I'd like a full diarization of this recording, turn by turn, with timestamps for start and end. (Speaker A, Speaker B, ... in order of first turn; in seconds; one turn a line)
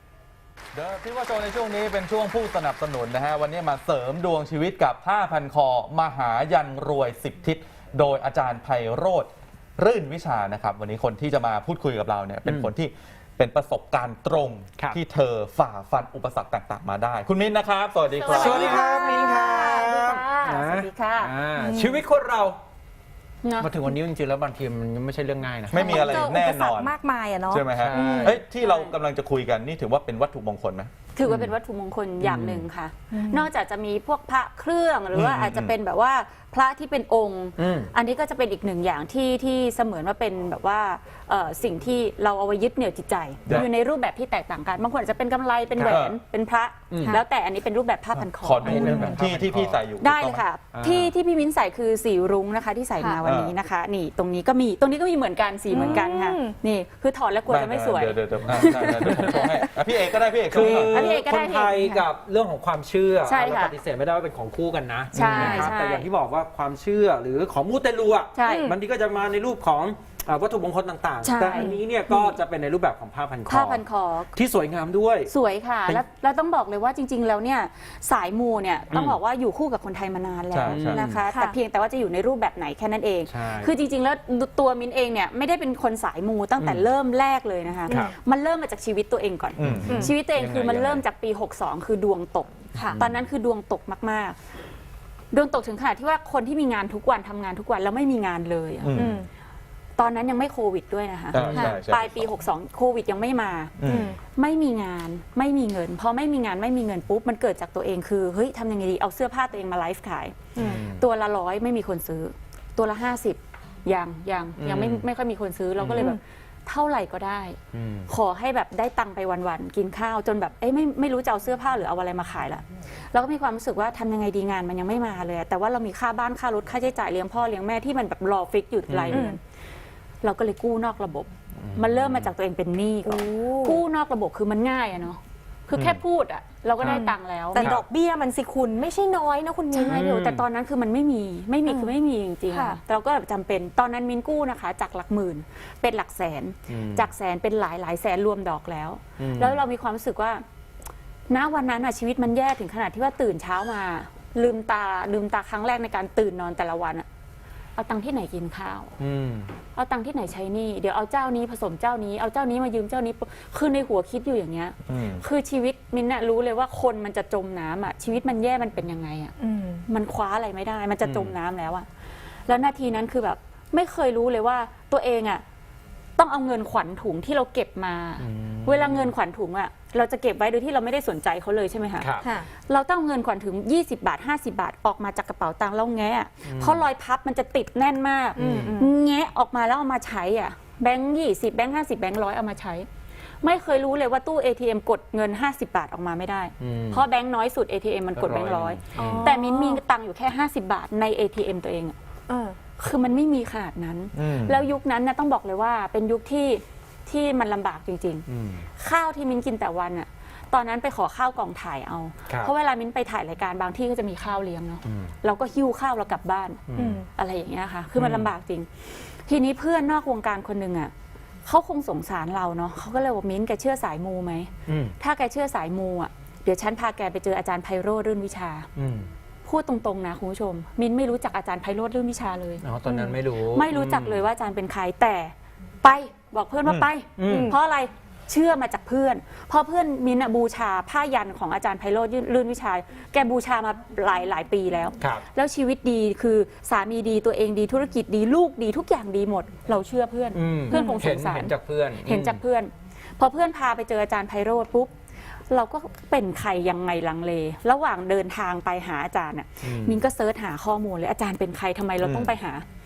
Speaker A: 0.7-18.9
Speaker B: 18.1-21.3
Speaker C: 18.3-22.6
Speaker D: 18.5-19.8
Speaker D: 21.6-22.0
Speaker B: 23.4-23.8
Speaker C: 23.6-26.2
Speaker A: 25.7-26.9
Speaker D: 25.7-28.4
Speaker B: 25.8-26.1
Speaker A: 27.5-30.9
Speaker C: 27.7-28.4
Speaker B: 28.6-28.9
Speaker B: 31.1-49.2
Speaker C: 31.2-31.5
Speaker C: 32.2-32.6
Speaker D: 33.1-33.5
Speaker A: 35.1-35.7
Speaker C: 37.6-37.9
Speaker C: 45.7-46.1
Speaker A: 45.8-46.2
Speaker C: 46.9-47.2
Speaker A: 48.2-50.4
Speaker C: 48.6-49.8
Speaker B: 50.0-59.7
Speaker C: 50.7-51.1
Speaker A: 53.2-53.5
Speaker D: 55.7-56.5
Speaker A: 57.5-61.1
Speaker C: 58.4-59.5
Speaker C: 60.5-75.3
Speaker B: 60.5-62.0
Speaker B: 63.2-63.8
Speaker B: 65.1-66.0
Speaker D: 65.3-65.6
Speaker B: 68.3-68.7
Speaker D: 68.5-68.7
Speaker B: 71.2-72.4
Speaker B: 73.5-74.3
Speaker B: 75.3-94.4
Speaker C: 78.9-79.2
Speaker A: 80.5-81.1
Speaker C: 80.6-81.2
Speaker D: 81.3-81.6
Speaker C: 83.3-83.7
Speaker C: 86.6-86.9
Speaker C: 87.9-88.1
Speaker A: 89.6-90.0
Speaker C: 89.6-91.0
Speaker D: 89.9-90.1
Speaker D: 92.7-93.0
Speaker C: 92.8-93.1
Speaker B: 95.3-99.0
Speaker A: 98.8-99.2
Speaker D: 98.9-99.3
Speaker B: 100.0-103.7
Speaker A: 101.3-102.3
Speaker C: 101.3-101.7
Speaker A: 103.8-104.1
Speaker D: 103.8-104.2
Speaker B: 104.4-129.4
Speaker C: 110.5-111.0
Speaker C: 114.6-115.0
Speaker C: 115.8-116.1
Speaker C: 117.7-118.1
Speaker C: 128.9-129.3
Speaker D: 129.1-129.4
Speaker B: 130.2-137.7
Speaker C: 131.6-132.3
Speaker D: 133.0-133.8
Speaker C: 135.7-136.0
Speaker C: 136.8-137.0
Speaker D: 136.8-140.1
Speaker C: 137.6-137.8
Speaker B: 139.7-150.4
Speaker C: 139.8-140.4
Speaker D: 141.7-141.9
Speaker D: 142.5-142.8
Speaker C: 146.7-147.1
Speaker C: 149.2-149.6
Speaker B: 151.3-157.1
Speaker B: 157.8-158.9
Speaker C: 159.0-159.5
Speaker B: 159.7-169.3
Speaker A: 164.9-165.2
Speaker D: 169.4-169.8
Speaker B: 169.9-171.9
Speaker A: 171.0-171.3
Speaker B: 172.5-175.4
Speaker B: 176.2-182.1
Speaker C: 178.2-179.1
Speaker C: 182.0-182.2
Speaker D: 182.2-182.5
Speaker B: 182.7-192.9
Speaker C: 186.4-186.8
Speaker D: 188.3-188.9
Speaker C: 188.4-188.8
Speaker B: 193.4-201.9
Speaker C: 196.6-197.0
Speaker C: 198.1-199.3
Speaker D: 198.9-199.8
Speaker D: 202.3-202.6
Speaker B: 202.8-208.2
Speaker A: 204.1-204.6
Speaker C: 208.3-208.7
Speaker B: 208.8-220.9
Speaker C: 214.8-215.1
Speaker C: 216.7-217.0
Speaker D: 216.8-217.0
Speaker C: 218.0-218.3
Speaker B: 221.4-228.7
Speaker C: 224.7-224.9
Speaker C: 228.8-229.1
Speaker B: 229.4-232.6
Speaker C: 232.6-234.2
Speaker D: 232.8-233.2
Speaker B: 233.5-254.9
Speaker C: 237.2-237.5
Speaker D: 237.3-237.6
Speaker C: 245.0-245.2
Speaker C: 250.3-252.4
Speaker D: 250.7-251.0
Speaker B: 255.5-262.6
Speaker C: 259.6-260.0
Speaker C: 262.0-262.3